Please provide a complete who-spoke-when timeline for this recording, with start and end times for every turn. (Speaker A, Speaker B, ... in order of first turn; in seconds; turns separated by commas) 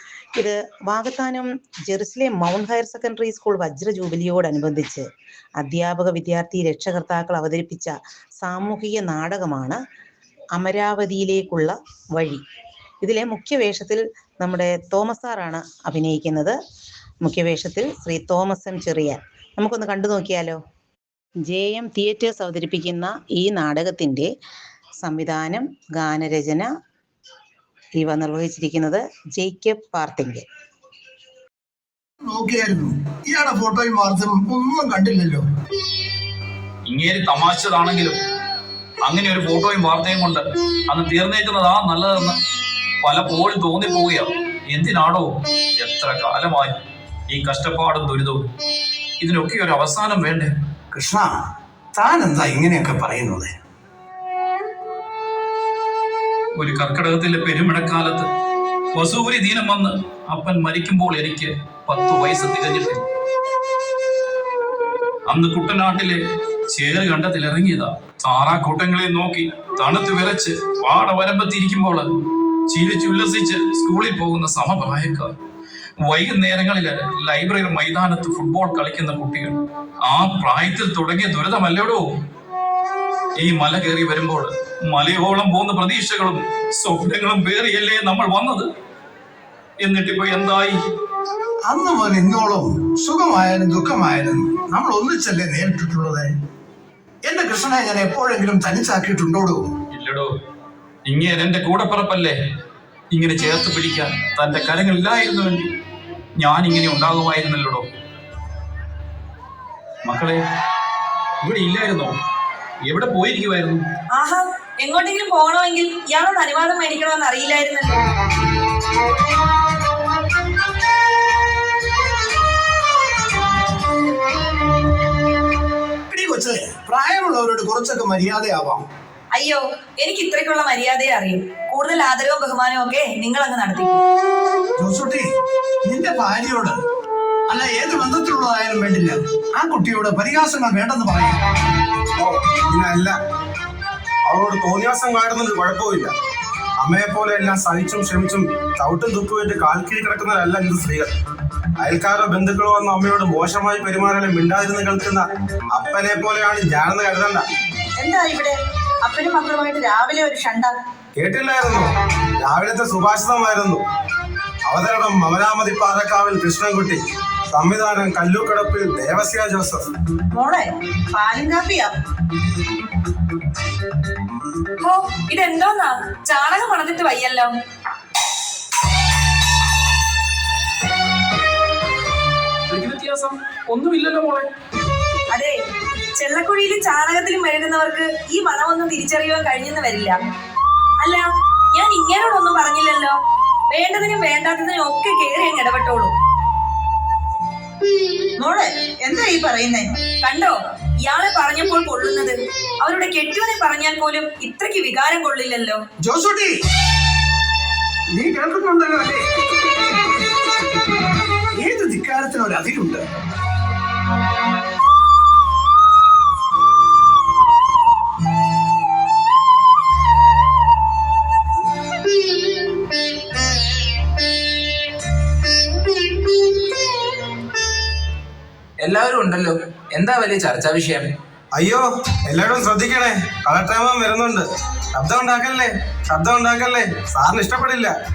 Speaker A: 0.4-5.1, Speaker A: 5.6-9.8, Speaker A: 10.6-12.4, Speaker A: 13.0-16.6, Speaker A: 17.2-20.6, Speaker A: 21.5-24.3, Speaker A: 25.0-26.7, Speaker A: 28.0-30.4, Speaker B: 32.2-35.5, Speaker C: 36.9-38.2, Speaker C: 39.0-42.4, Speaker C: 43.0-48.4, Speaker C: 49.2-50.5, Speaker B: 50.9-51.3, Speaker B: 52.0-53.6, Speaker C: 56.6-58.3, Speaker C: 58.9-63.0, Speaker C: 65.3-72.1, Speaker C: 72.7-75.3, Speaker C: 76.0-82.1, Speaker C: 83.4-88.7, Speaker C: 89.8-90.8, Speaker B: 91.7-96.3, Speaker B: 97.2-99.7, Speaker C: 99.9-100.3, Speaker C: 101.0-102.4, Speaker C: 103.1-105.7, Speaker C: 106.4-107.9, Speaker C: 110.0-110.5, Speaker C: 111.4-112.2, Speaker C: 112.8-113.9, Speaker D: 114.2-118.0, Speaker B: 126.1-128.9, Speaker D: 129.3-134.0, Speaker B: 134.8-135.3, Speaker B: 135.8-136.8, Speaker B: 137.5-141.4, Speaker E: 142.2-143.2, Speaker E: 144.3-146.1, Speaker E: 146.8-151.1, Speaker E: 151.8-157.4, Speaker D: 158.0-158.5, Speaker D: 159.1-160.7, Speaker E: 161.2-163.8, Speaker E: 164.7-167.0, Speaker E: 167.5-169.9, Speaker D: 170.4-171.9, Speaker D: 174.8-177.5, Speaker C: 182.7-184.5, Speaker D: 186.2-190.2, Speaker D: 191.0-193.2, Speaker D: 193.7-196.1, Speaker D: 198.4-200.5, Speaker D: 201.1-205.8, Speaker B: 206.0-206.6, Speaker B: 208.1-209.2, Speaker B: 211.5-213.1, Speaker F: 228.8-231.1, Speaker E: 231.6-237.9